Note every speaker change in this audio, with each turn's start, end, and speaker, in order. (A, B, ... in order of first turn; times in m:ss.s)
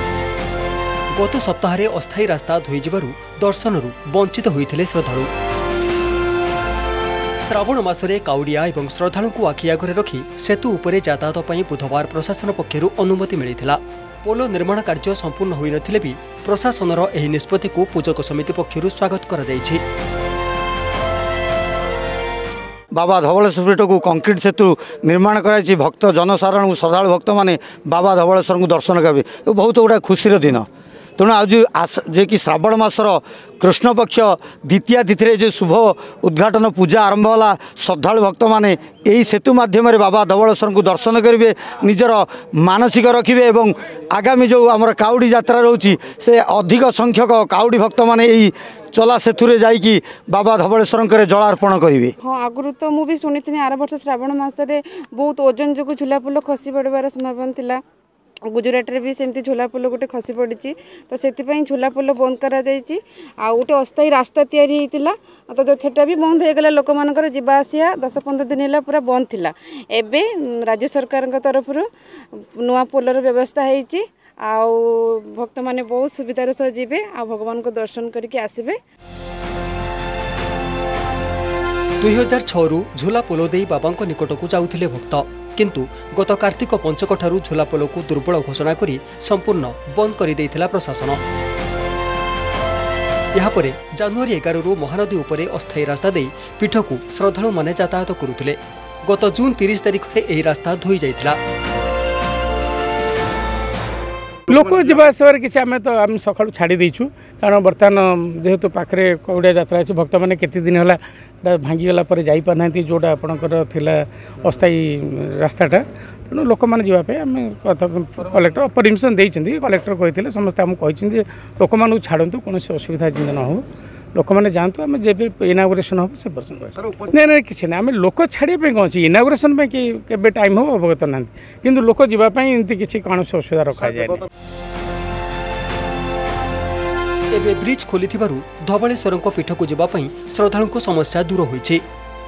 0:01.1-0:05.3 A
0:07.4-0:19.8 A
0:22.9-0:30.6 B
0:31.2-0:52.1 B
0:52.2-0:57.8 C
0:58.5-1:11.8 C
1:12.6-1:18.8 C
1:22.0-1:31.2 A
1:33.3-1:41.4 A
1:44.5-1:51.0 D
1:51.5-1:53.9 D
1:54.4-1:54.8 D
1:55.4-1:55.8 D
1:56.3-2:03.6 D
2:04.2-2:14.2 D
2:17.3-2:21.8 A